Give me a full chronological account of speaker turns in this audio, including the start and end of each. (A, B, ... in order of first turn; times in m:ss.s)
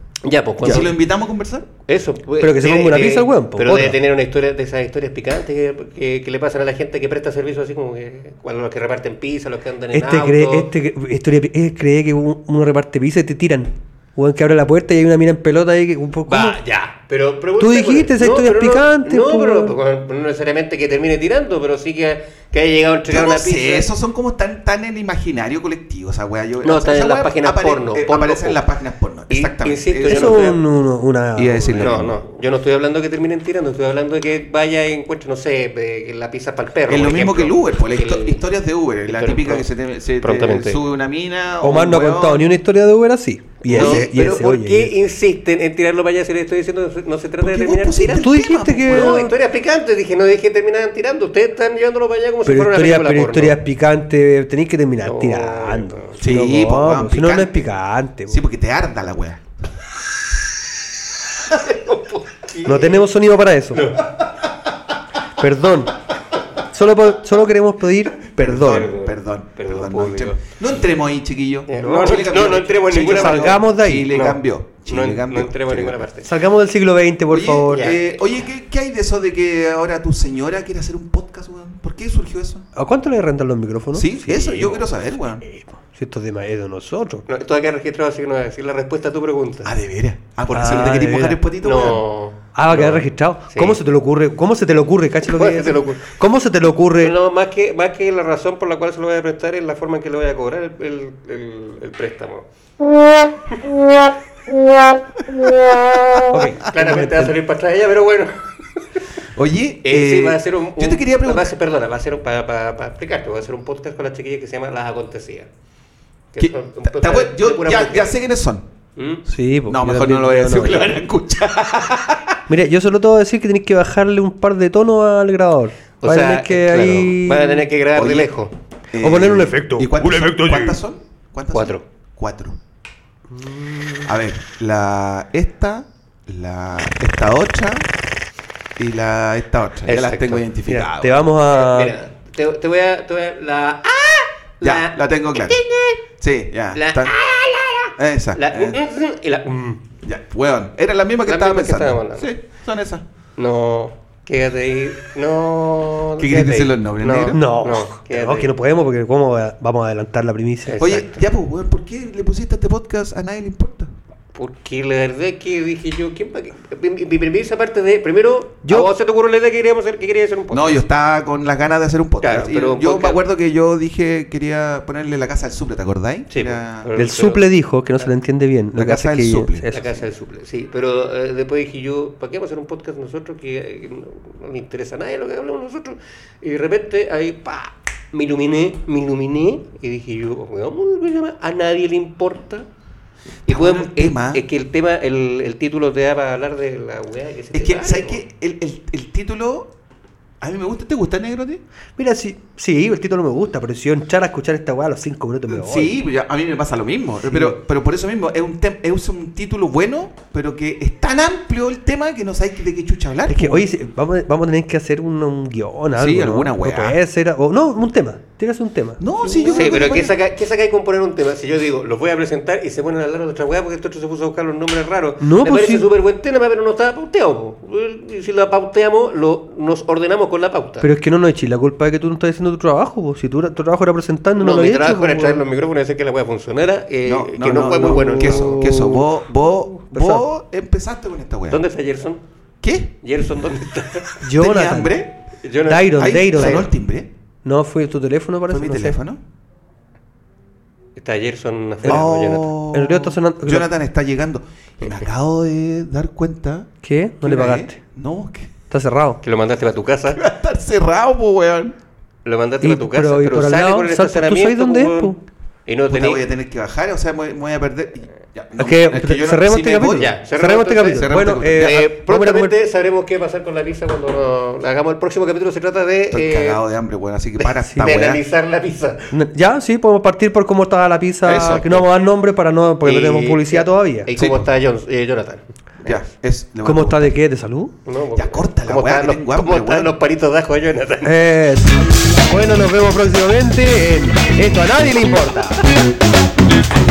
0:00.2-0:01.0 A
0:00.6-0:01.7 B
0:01.8-0:10.7 A
0:02.4-0:04.0 C
0:09.9-0:16.6 C
0:16.3-0:23.9 A
0:17.6-0:19.8 C
0:23.1-0:30.5 B
0:26.6-0:28.6 A
0:29.3-0:30.6 A
0:30.0-0:32.2 C
0:31.4-0:32.1 B
0:31.7-0:38.4 A
0:36.9-0:42.5 B
0:39.1-0:39.7 A
0:40.2-0:40.8 A
0:41.6-0:44.9 C
0:43.6-0:48.3 A
0:43.7-0:44.4 B
0:47.4-0:49.2 B
0:48.1-0:49.3 C
0:48.9-0:53.6 A
0:52.4-0:58.4 C
0:55.0-0:56.2 A
0:56.2-0:59.4 B
1:01.5-1:03.0 A
1:02.6-1:03.9 C
1:03.7-1:04.3 A
1:05.4-1:06.0 C
1:06.7-1:08.9 C
1:08.4-1:10.4 A
1:08.4-1:16.0 B
1:11.7-1:16.3 A
1:11.7-1:14.1 C
1:16.2-1:17.9 C
1:17.3-1:22.6 B
1:17.7-1:18.0 A
1:22.7-1:24.9 C
1:23.9-1:25.4 B
1:25.4-1:27.2 C
1:27.3-1:29.7 A
1:29.6-1:32.0 B
1:30.5-1:31.4 C
1:30.6-1:30.8 A
1:31.6-1:33.8 A
1:32.5-1:37.1 C
1:35.3-1:36.1 A
1:37.0-1:42.4 A
1:46.3-1:48.9 A
1:46.3-1:47.4 C
1:49.4-1:51.5 B
1:49.8-1:55.5 A
1:56.3-1:58.2 A
1:56.4-1:58.7 B
1:59.0-1:59.2 A
1:59.3-2:01.0 C
1:59.7-2:02.3 B
2:02.5-2:07.7 C
2:06.0-2:08.5 A
2:07.9-2:08.4 B
2:08.9-2:12.6 B
2:09.0-2:10.8 C
2:11.5-2:11.8 A
2:13.3-2:14.1 C
2:14.0-2:17.9 B
2:18.8-2:21.2 B
2:19.8-2:20.5 A
2:20.6-2:22.0 C
2:21.5-2:26.0 A
2:24.6-2:27.2 B
2:26.7-2:29.8 A
2:28.0-2:28.8 B
2:30.0-2:33.0 B
2:31.3-2:32.3 A
2:33.4-2:38.5 A
2:36.2-2:37.4 B
2:37.3-2:40.9 C
2:40.6-2:41.2 A
2:40.8-2:43.9 B
2:44.3-2:50.8 A
2:48.6-2:48.9 C
2:50.5-2:56.9 B
2:52.2-2:53.2 A
2:56.3-2:57.4 A
2:56.9-2:59.9 C
2:58.8-2:59.7 B
2:59.7-3:12.7 A
3:13.5-3:14.4 B
3:13.5-3:18.2 A
3:17.5-3:19.7 B
3:20.4-3:21.6 B
3:22.0-3:26.0 C
3:25.5-3:33.7 B
3:27.3-3:27.6 C
3:33.3-3:39.6 C
3:36.0-3:37.0 B
3:39.0-3:40.1 B
3:39.4-3:50.9 A
3:45.2-3:45.9 C
3:50.8-3:55.4 C
3:54.4-3:58.5 A
3:57.0-4:01.6 B
3:57.6-3:59.2 C
3:59.9-4:00.3 C
4:01.5-4:02.2 A
4:02.6-4:03.0 B
4:03.0-4:04.3 A
4:04.2-4:05.0 C
4:04.4-4:05.2 B
4:05.4-4:06.6 A
4:05.7-4:06.7 C
4:05.9-4:07.1 B
4:07.4-4:09.0 C
4:08.5-4:09.2 B
4:11.0-4:12.5 A
4:11.8-4:12.1 C
4:11.8-4:16.7 B
4:12.7-4:13.7 C
4:16.8-4:17.8 C
4:17.2-4:18.5 B
4:18.7-4:19.2 C
4:19.2-4:20.2 A
4:20.1-4:21.7 B
4:22.2-4:25.2 A
4:22.6-4:25.2 C
4:25.7-4:26.2 A
4:25.9-4:30.2 B
4:28.6-4:32.5 C
4:29.9-4:36.6 A
4:30.9-4:31.9 B
4:36.1-4:38.2 B
4:37.4-4:39.1 A
4:39.1-4:44.1 C
4:41.2-4:41.8 B
4:42.8-4:46.1 A
4:44.2-4:44.5 B
4:45.8-4:47.2 B
4:46.6-4:47.7 C
4:47.8-4:51.2 A
4:48.1-4:49.9 B
4:51.0-4:55.6 C